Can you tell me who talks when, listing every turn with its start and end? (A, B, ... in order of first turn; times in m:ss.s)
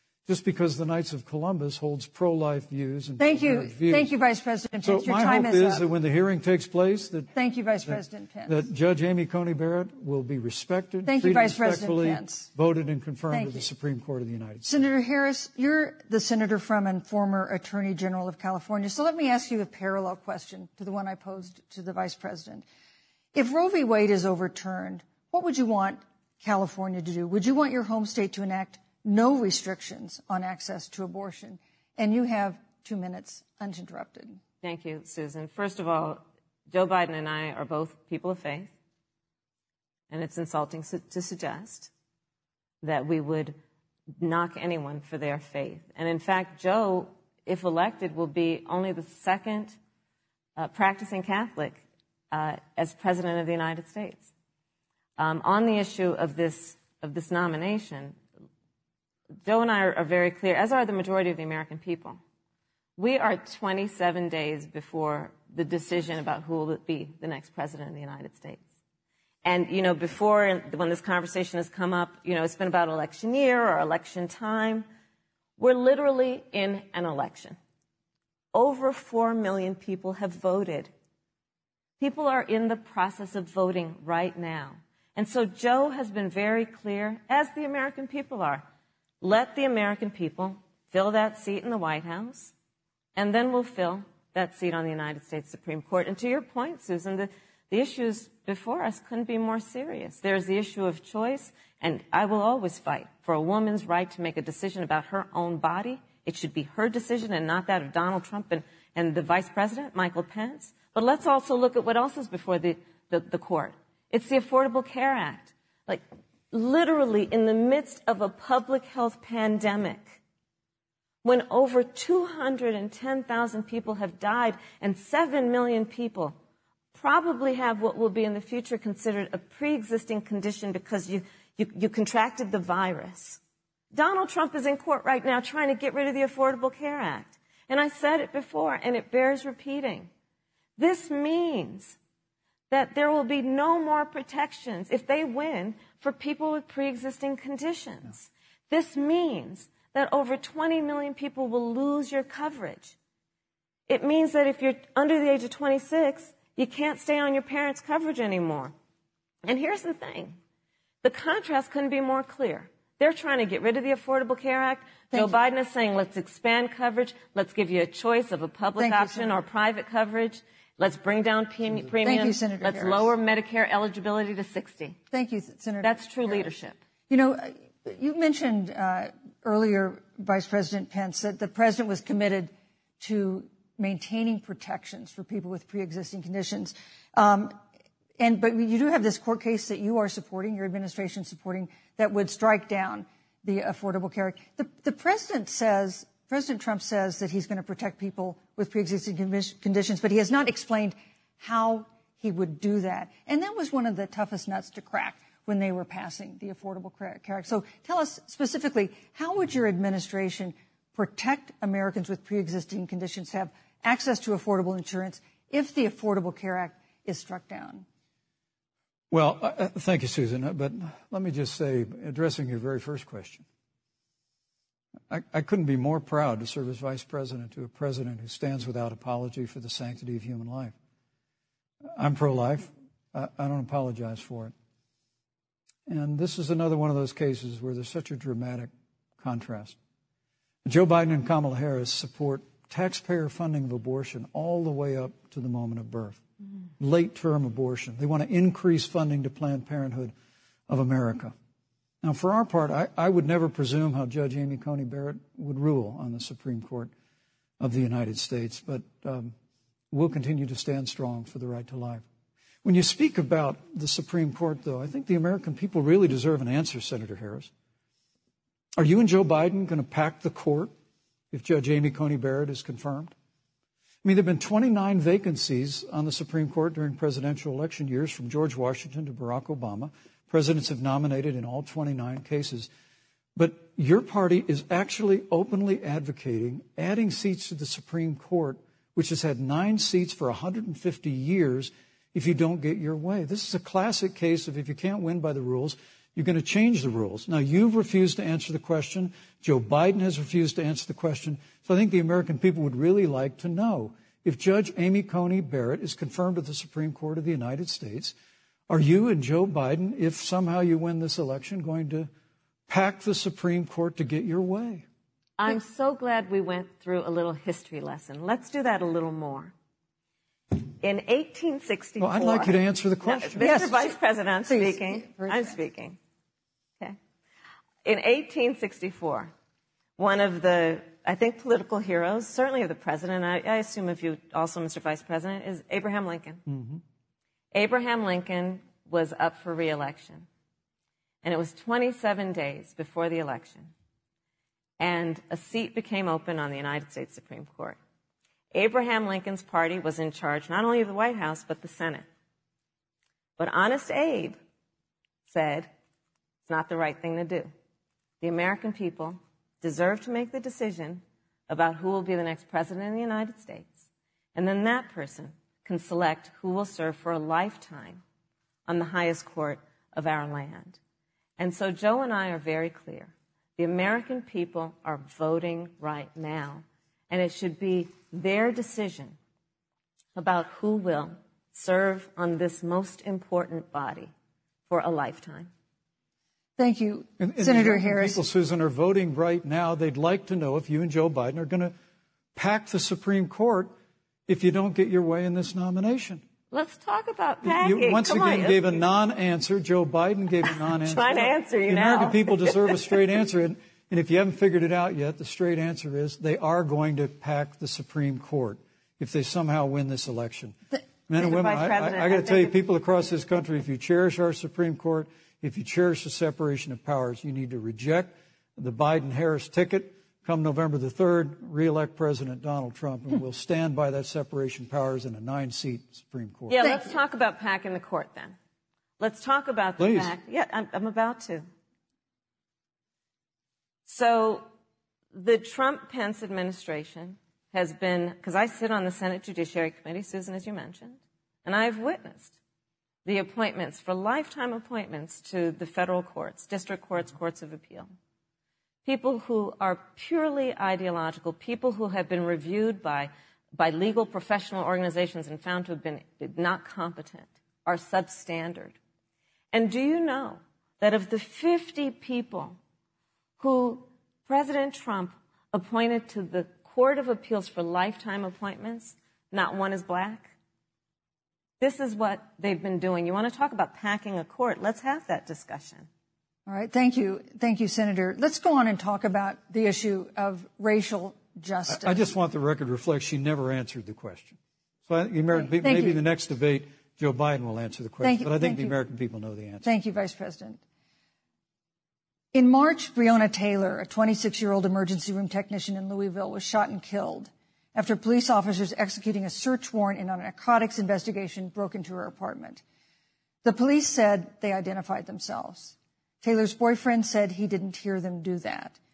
0:00.3-0:04.1 A
0:03.2-0:05.8 B
0:04.8-0:07.3 A
0:07.4-0:08.7 B
0:07.9-0:14.9 A
0:11.0-0:12.5 B
0:13.3-0:13.7 B
0:14.6-0:22.7 B
0:23.3-0:34.4 B
0:34.6-0:38.7 C
0:40.1-0:41.9 C
0:42.8-0:43.6 C
0:44.2-0:49.8 C
0:50.6-0:54.3 C
0:55.2-0:58.2 C
0:59.4-1:02.2 C
1:03.0-1:08.6 C
1:09.4-1:14.9 C
1:15.6-1:17.6 C
1:18.5-1:20.9 C
1:22.0-1:28.6 C
1:29.2-1:32.5 C
1:33.2-2:00.2 C
2:01.2-2:06.4 C
2:06.9-2:13.4 C
2:13.9-2:20.1 C
2:20.8-2:22.0 C
2:22.7-2:33.0 C
2:33.9-2:38.7 C
2:39.4-2:40.4 C
2:41.0-2:55.0 C
2:48.8-2:49.4 B
2:52.0-2:53.1 B
2:55.1-2:56.5 B
2:55.8-2:56.8 C
2:57.1-3:07.6 B
3:08.2-3:37.9 B
3:39.1-3:43.4 A
3:45.1-3:50.8 A
3:52.0-3:54.5 A
3:55.9-3:59.8 A
4:00.6-4:06.2 A
4:06.8-4:10.1 A
4:10.7-4:11.3 A
4:12.0-4:16.9 A
4:17.6-4:19.3 A
4:19.9-4:22.1 A
4:22.6-4:27.5 A
4:28.8-4:30.7 A
4:31.3-4:33.2 A
4:34.0-4:42.7 A
4:43.4-5:08.1 A
5:08.7-5:12.1 A
5:12.7-5:14.9 A
5:15.4-5:19.5 C
5:20.8-5:26.0 C
5:22.0-5:23.5 A
5:23.4-5:24.0 B
5:24.5-5:25.6 B
5:27.8-5:29.3 C
5:30.0-5:36.4 C
5:36.5-5:36.8 A
5:37.5-5:40.3 C
5:41.2-5:43.7 C
5:44.8-5:47.8 C
5:48.5-5:52.0 C
5:53.4-5:54.4 C
5:55.3-5:55.7 C
5:56.5-5:57.5 C
5:58.2-6:08.0 C
6:08.7-6:10.8 C
6:11.4-6:19.2 C
6:20.2-6:24.1 C
6:24.7-6:25.5 C
6:26.6-6:28.2 B
6:27.2-6:31.7 A
6:32.4-6:33.7 A
6:34.3-6:36.2 A
6:36.5-6:38.8 C
6:37.4-7:06.6 A
6:40.4-6:42.9 C
6:51.2-6:52.6 C
7:06.5-7:08.4 C
7:06.6-7:07.0 B
7:09.0-7:11.4 C
7:09.8-7:10.2 A
7:13.9-7:14.4 C
7:15.1-7:22.4 C
7:23.0-7:27.9 C
7:28.8-7:38.8 C
7:39.5-7:42.6 C
7:43.4-7:50.3 C
7:51.6-7:55.9 C
7:56.5-8:02.1 B
8:01.7-8:09.7 A
8:05.3-8:06.0 B
8:08.0-8:08.8 B
8:09.6-8:10.6 B
8:12.3-8:22.6 B
8:23.4-8:28.8 B